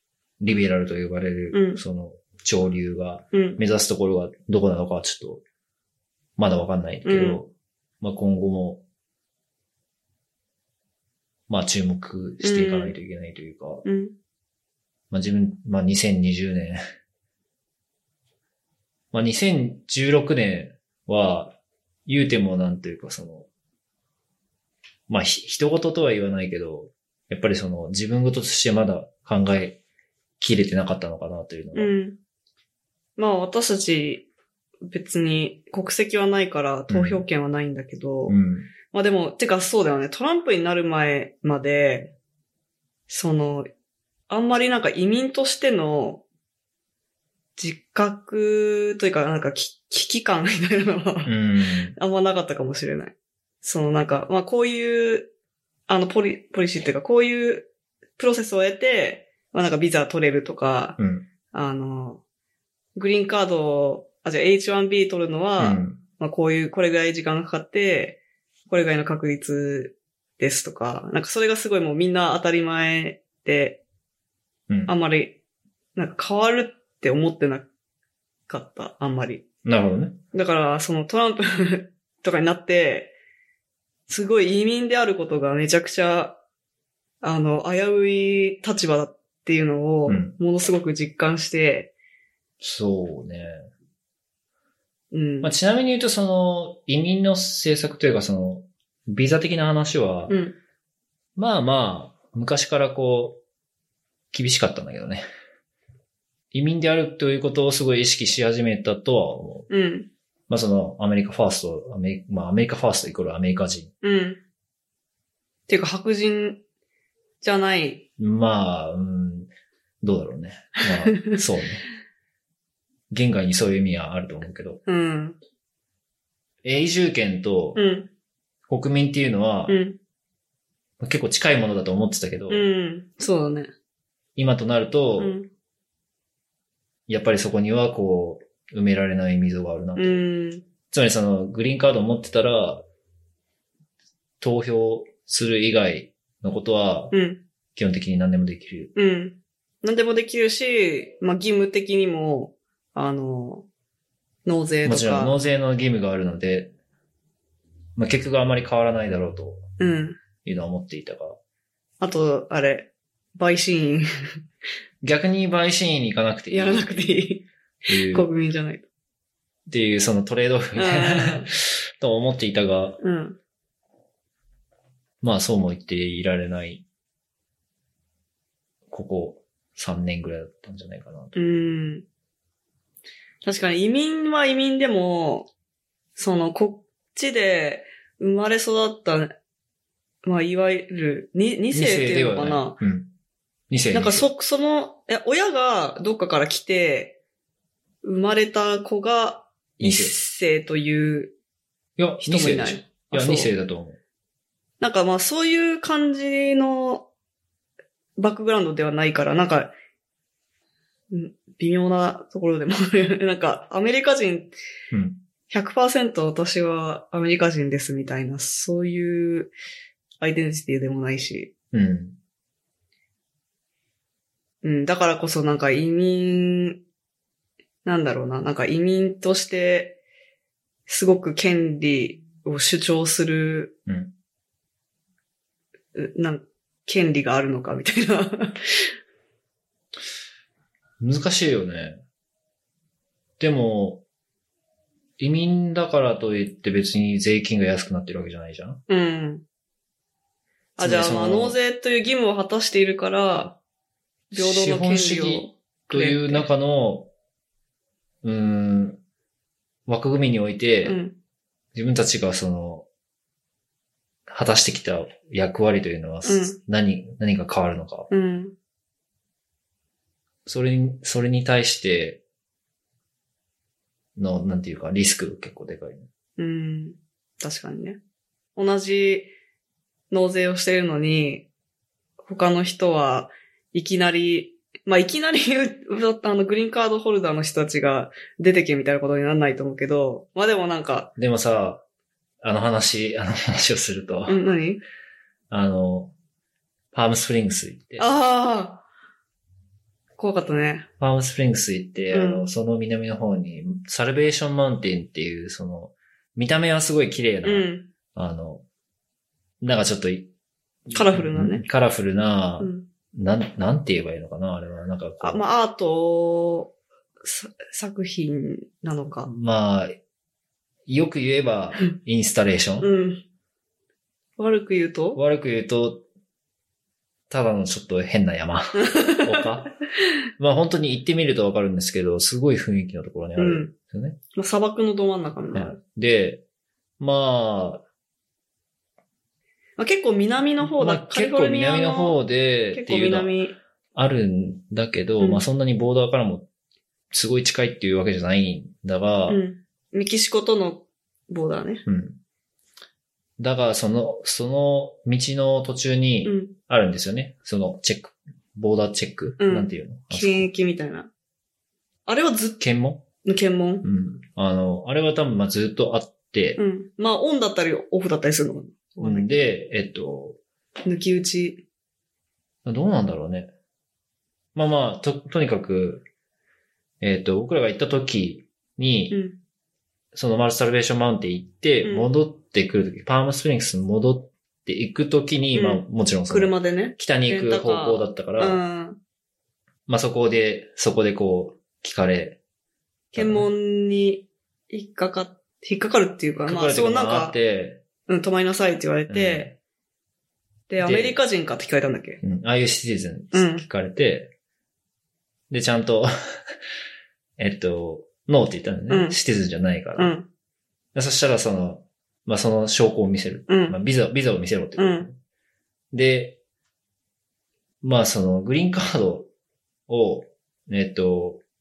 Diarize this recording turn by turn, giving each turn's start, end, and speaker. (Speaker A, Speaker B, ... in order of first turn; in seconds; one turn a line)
Speaker A: 0.4-5.4
Speaker B: 1.5-1.8
Speaker B: 3.3-3.6
Speaker A: 6.4-8.8
Speaker B: 7.0-7.4
Speaker A: 11.5-13.8
Speaker B: 12.4-12.9
Speaker B: 13.8-14.1
Speaker A: 15.1-16.8
Speaker A: 19.1-23.5
Speaker A: 25.1-29.8
Speaker A: 30.4-31.9
Speaker B: 31.7-32.2
Speaker B: 33.2-34.3
Speaker B: 34.9-38.4
Speaker A: 36.9-37.2
Speaker A: 38.3-38.7
Speaker B: 38.9-42.1
Speaker B: 43.1-43.7
Speaker B: 44.3-46.2
Speaker B: 47.6-51.4
Speaker A: 51.2-51.9
Speaker B: 51.9-55.3
Speaker B: 55.9-61.0
Speaker A: 61.0-61.2
Speaker B: 61.5-62.2
Speaker B: 63.0-73.8
Speaker A: 65.6-66.0
Speaker B: 74.9-75.4
Speaker B: 76.0-77.7
Speaker B: 78.5-79.4
Speaker A: 79.6-80.2
Speaker B: 80.3-83.1
Speaker B: 84.1-86.4
Speaker B: 87.2-91.9
Speaker A: 90.1-90.3
Speaker A: 92.6-93.6
Speaker B: 95.1-95.5
Speaker A: 95.4-100.4
Speaker B: 100.3-100.5
Speaker A: 101.3-103.4
Speaker A: 104.3-105.2
Speaker A: 106.5-109.7
Speaker B: 109.7-110.1
Speaker A: 110.5-113.9
Speaker B: 114.0-114.4
Speaker B: 115.7-116.6
Speaker B: 117.4-118.0
Speaker A: 118.2-119.5
Speaker A: 120.0-121.8
Speaker B: 120.8-121.4
Speaker A: 123.1-124.8
Speaker B: 124.8-125.4
Speaker A: 126.6-127.8
Speaker B: 127.8-128.1
Speaker A: 128.7-129.8
Speaker B: 129.7-130.0
Speaker A: 131.0-132.7
Speaker B: 132.5-133.7
Speaker A: 134.3-135.3
Speaker B: 135.2-135.5
Speaker A: 137.1-140.2
Speaker B: 139.9-140.6
Speaker A: 140.9-142.8
Speaker A: 144.4-147.1
Speaker B: 147.1-147.4
Speaker A: 147.8-148.9
Speaker B: 148.9-153.7
Speaker B: 154.4-155.3
Speaker A: 154.8-156.7
Speaker A: 157.9-159.8
Speaker B: 159.8-160.2
Speaker A: 160.4-161.4
Speaker B: 162.0-164.1
Speaker A: 165.0-167.1
Speaker B: 166.5-168.8
Speaker A: 167.9-168.3
Speaker A: 169.7-173.0
Speaker B: 170.8-171.5
Speaker B: 173.0-173.4
Speaker A: 175.2-176.8
Speaker A: 178.9-181.3
Speaker B: 181.3-182.1
Speaker B: 183.4-185.5
Speaker B: 186.2-189.3
Speaker B: 190.2-192.8
Speaker A: 191.7-193.1
Speaker A: 193.7-194.3
Speaker B: 193.9-197.2
Speaker B: 198.0-201.3
Speaker A: 199.8-200.1
Speaker A: 202.0-204.0
Speaker B: 202.2-203.5
Speaker B: 204.8-207.1
Speaker B: 208.2-209.7
Speaker B: 211.1-214.5
Speaker A: 214.9-215.2
Speaker B: 215.5-219.5
Speaker B: 220.2-221.5
Speaker A: 221.7-222.2
Speaker B: 224.6-226.8
Speaker B: 227.8-230.0
Speaker B: 230.9-233.8
Speaker A: 233.9-234.1
Speaker B: 235.9-238.6
Speaker A: 241.0-242.0
Speaker A: 243.4-244.0
Speaker A: 245.2-248.8
Speaker B: 248.9-249.4
Speaker B: 250.8-253.6
Speaker A: 250.8-251.6
Speaker B: 254.3-256.5
Speaker A: 254.3-257.1
Speaker A: 258.2-259.0
Speaker A: 259.9-261.0
Speaker B: 260.8-261.1
Speaker A: 261.7-262.9
Speaker A: 264.3-268.1
Speaker B: 266.2-266.6
Speaker B: 268.1-268.5
Speaker A: 270.4-272.2
Speaker A: 274.1-276.1
Speaker B: 276.4-278.0
Speaker B: 278.6-279.3
Speaker B: 280.1-281.5
Speaker B: 282.2-291.1
Speaker A: 291.2-291.8
Speaker A: 292.4-294.4
Speaker B: 294.3-294.8
Speaker A: 295.5-296.1
Speaker A: 296.9-298.1
Speaker B: 298.0-298.8
Speaker B: 300.2-300.9
Speaker A: 301.0-308.6
Speaker B: 302.1-302.5
Speaker B: 307.4-307.9
Speaker A: 309.6-310.3
Speaker A: 310.9-315.4
Speaker B: 310.9-311.6
Speaker B: 312.6-312.9
Speaker B: 315.2-319.3
Speaker A: 319.2-319.9
Speaker A: 320.9-322.9
Speaker B: 322.8-323.2
Speaker B: 324.4-325.2
Speaker A: 325.1-326.0
Speaker A: 327.3-329.7
Speaker B: 328.7-329.5
Speaker A: 330.4-334.2
Speaker B: 333.4-333.7
Speaker B: 334.3-335.8
Speaker A: 335.5-336.4
Speaker A: 337.0-337.8
Speaker B: 339.8-342.2
Speaker A: 340.6-343.3
Speaker B: 342.7-343.6
Speaker A: 343.9-346.5
Speaker A: 347.1-349.4
Speaker B: 349.3-351.9
Speaker A: 351.9-352.2
Speaker A: 353.4-360.5
Speaker B: 356.2-356.5
Speaker B: 359.4-361.1
Speaker B: 362.1-362.6
Speaker A: 362.6-363.1
Speaker B: 363.2-363.9
Speaker A: 363.8-366.6
Speaker B: 366.6-369.5
Speaker A: 369.0-370.4
Speaker B: 370.8-371.6
Speaker A: 372.6-373.5
Speaker A: 374.5-376.1
Speaker A: 377.0-379.2
Speaker B: 379.1-379.4
Speaker A: 380.1-388.6
Speaker B: 385.5-389.0
Speaker A: 389.9-392.4
Speaker B: 393.1-397.4
Speaker A: 393.1-393.5
Speaker A: 396.4-397.8
Speaker B: 398.1-399.6
Speaker A: 399.1-399.5
Speaker B: 400.7-402.2
Speaker A: 400.8-401.2
Speaker A: 402.2-404.3
Speaker B: 403.3-403.6
Speaker A: 405.5-406.1
Speaker A: 407.4-410.1
Speaker B: 408.9-409.2
Speaker B: 410.0-410.3
Speaker A: 410.9-415.2
Speaker B: 413.5-413.8
Speaker B: 414.8-415.1
Speaker A: 415.9-416.4
Speaker A: 417.8-419.3
Speaker A: 419.9-421.4